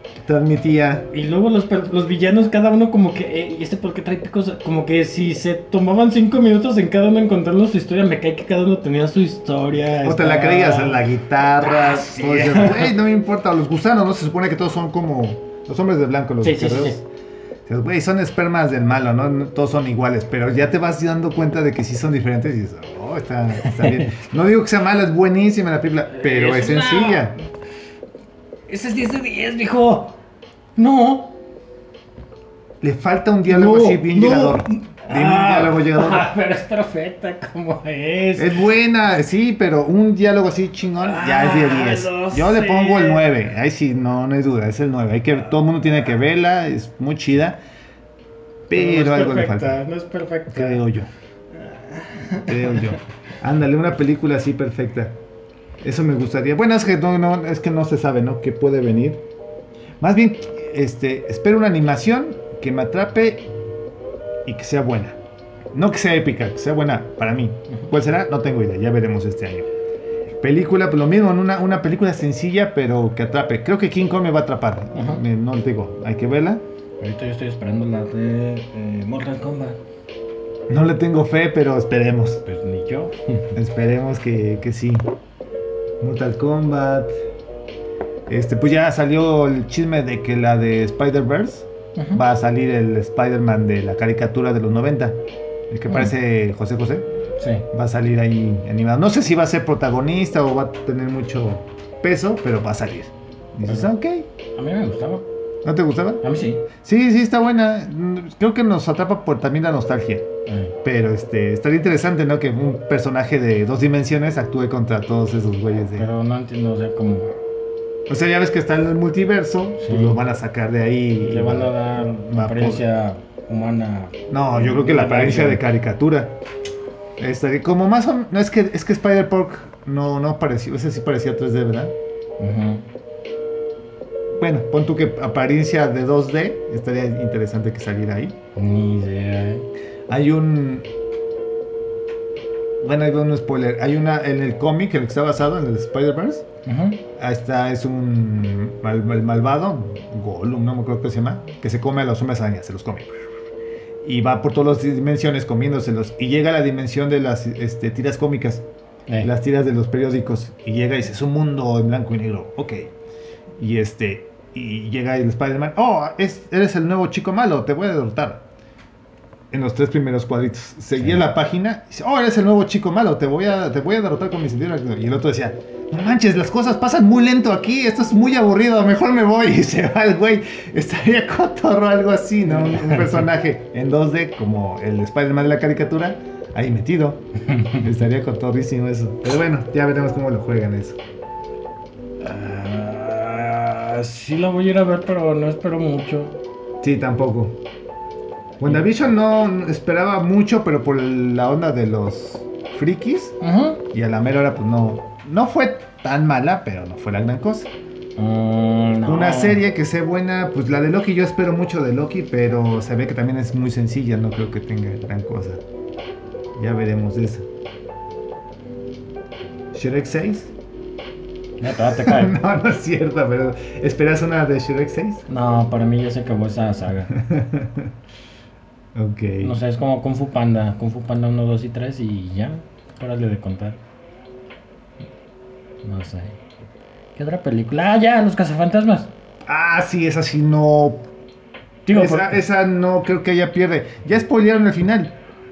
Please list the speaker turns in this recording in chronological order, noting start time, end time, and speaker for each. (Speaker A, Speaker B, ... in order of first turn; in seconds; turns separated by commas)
Speaker A: 0.2-1.1, Speaker B: 1.1-11.0, Speaker A: 10.0-17.0, Speaker B: 11.6-12.9, Speaker B: 16.4-17.0, Speaker A: 17.7-27.4, Speaker B: 23.6-24.2, Speaker B: 26.1-27.4, Speaker B: 28.7-30.2, Speaker B: 30.8-31.4, Speaker A: 32.8-36.3, Speaker B: 33.5-38.6, Speaker A: 38.4-47.6, Speaker B: 41.0-43.3, Speaker A: 48.7-49.8, Speaker B: 48.7-50.8, Speaker A: 50.5-51.1, Speaker B: 51.5-53.0, Speaker A: 52.5-55.2, Speaker A: 55.8-59.2, Speaker A: 60.0-63.5, Speaker A: 64.5-65.2, Speaker A: 65.7-69.7, Speaker A: 70.4-76.6, Speaker B: 74.9-75.2, Speaker B: 77.0-79.8, Speaker A: 80.7-82.4, Speaker B: 82.5-83.5, Speaker A: 83.5-85.1, Speaker A: 86.0-87.1, Speaker A: 88.3-97.1, Speaker B: 92.0-92.2, Speaker B: 97.4-97.7, Speaker A: 97.7-104.3, Speaker B: 103.7-103.9, Speaker B: 104.5-105.3, Speaker A: 105.6-106.2, Speaker B: 106.2-106.7, Speaker A: 106.8-110.3, Speaker B: 110.5-110.8, Speaker A: 110.8-116.1, Speaker B: 116.0-117.3, Speaker A: 118.1-122.8, Speaker B: 119.8-120.2, Speaker B: 121.2-125.6, Speaker A: 124.3-126.4, Speaker A: 127.2-131.9, Speaker B: 132.4-132.8, Speaker A: 134.4-138.4, Speaker B: 138.6-139.7, Speaker A: 140.1-140.9, Speaker A: 142.8-146.4, Speaker B: 146.7-147.0, Speaker A: 147.2-153.2, Speaker A: 154.0-158.7, Speaker A: 159.2-162.9, Speaker A: 163.6-168.4, Speaker A: 169.5-187.3, Speaker B: 171.0-171.2, Speaker B: 182.5-183.2, Speaker B: 187.5-187.8, Speaker A: 187.8-191.0, Speaker B: 192.2-196.4, Speaker A: 196.8-197.6, Speaker A: 198.6-203.4, Speaker B: 203.4-203.8, Speaker A: 203.9-207.7, Speaker B: 208.2-209.6, Speaker A: 209.1-215.6, Speaker A: 216.6-217.5, Speaker A: 219.7-220.5, Speaker B: 221.6-222.3, Speaker A: 221.7-225.2, Speaker B: 225.3-227.1, Speaker A: 227.1-227.9, Speaker A: 228.9-229.6, Speaker B: 229.4-233.8, Speaker B: 235.8-236.4, Speaker B: 237.2-239.1, Speaker A: 239.5-241.1, Speaker B: 241.9-242.4, Speaker A: 241.9-245.2